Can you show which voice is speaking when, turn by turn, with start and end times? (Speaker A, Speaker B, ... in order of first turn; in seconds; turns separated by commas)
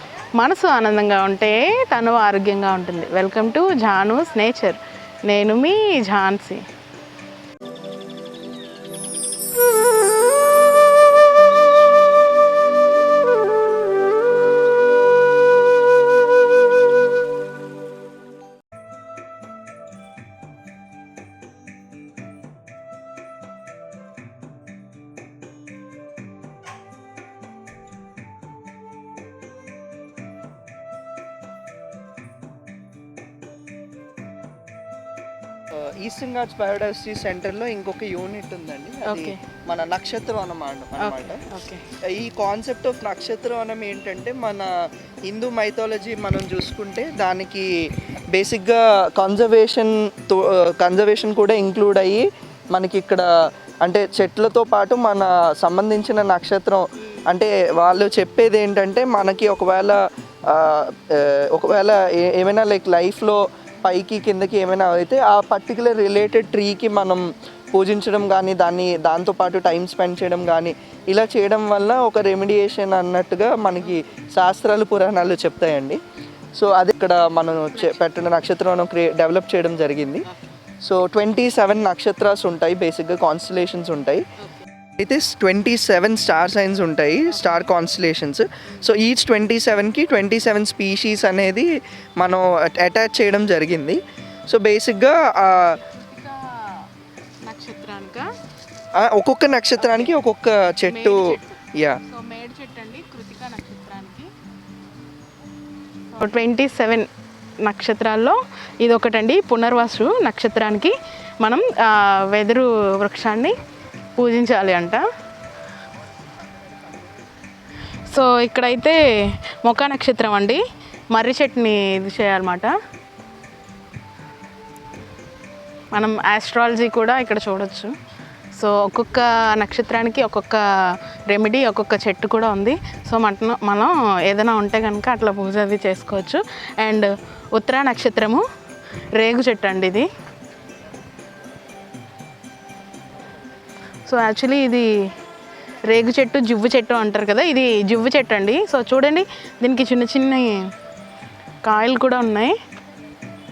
Speaker A: 0.4-6.7, Speaker B: 35.7-41.5, Speaker A: 39.0-39.4, Speaker A: 41.0-41.9, Speaker B: 42.0-47.7, Speaker B: 48.3-53.3, Speaker B: 53.8-76.0, Speaker B: 76.6-80.3, Speaker B: 80.8-84.3, Speaker B: 85.0-95.8, Speaker A: 87.3-87.6, Speaker A: 95.8-96.9, Speaker A: 97.4-98.3, Speaker B: 99.0-102.0, Speaker A: 99.8-100.2, Speaker A: 100.9-104.3, Speaker A: 106.1-107.1, Speaker A: 107.6-113.6, Speaker A: 114.2-115.1, Speaker A: 118.1-122.8, Speaker A: 125.9-127.9, Speaker A: 128.6-138.5, Speaker A: 139.2-140.1, Speaker A: 144.1-145.1, Speaker A: 145.9-150.7, Speaker A: 151.6-152.6